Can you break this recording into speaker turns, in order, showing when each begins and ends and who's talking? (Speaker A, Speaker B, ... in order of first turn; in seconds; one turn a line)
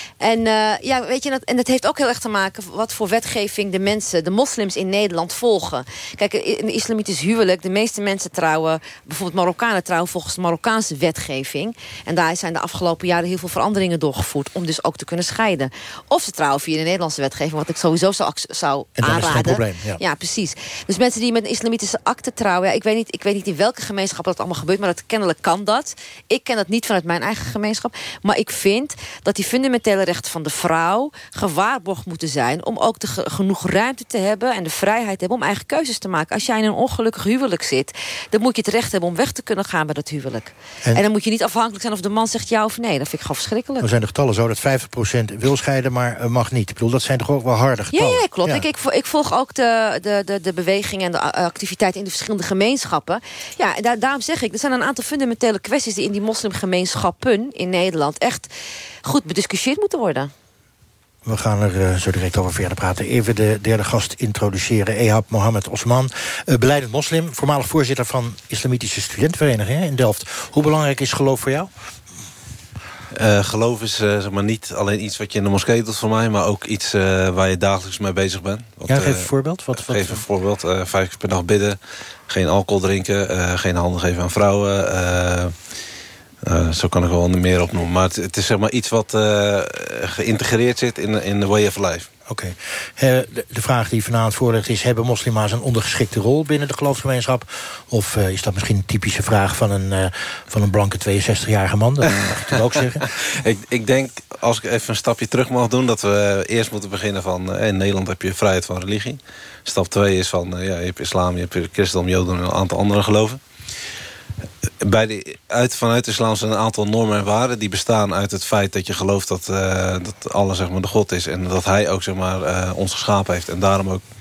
Speaker A: 0.2-43.9
Speaker B: 19.0-20.0
Speaker B: 43.8-48.6
Speaker A: 47.9-58.5
Speaker A: 59.0-60.3
Speaker B: 61.2-71.7
Speaker C: 73.2-81.8
Speaker B: 78.9-80.2
Speaker C: 82.3-85.5
Speaker C: 86.5-92.1
Speaker B: 92.3-103.0
Speaker C: 102.2-113.4
Speaker C: 114.8-124.0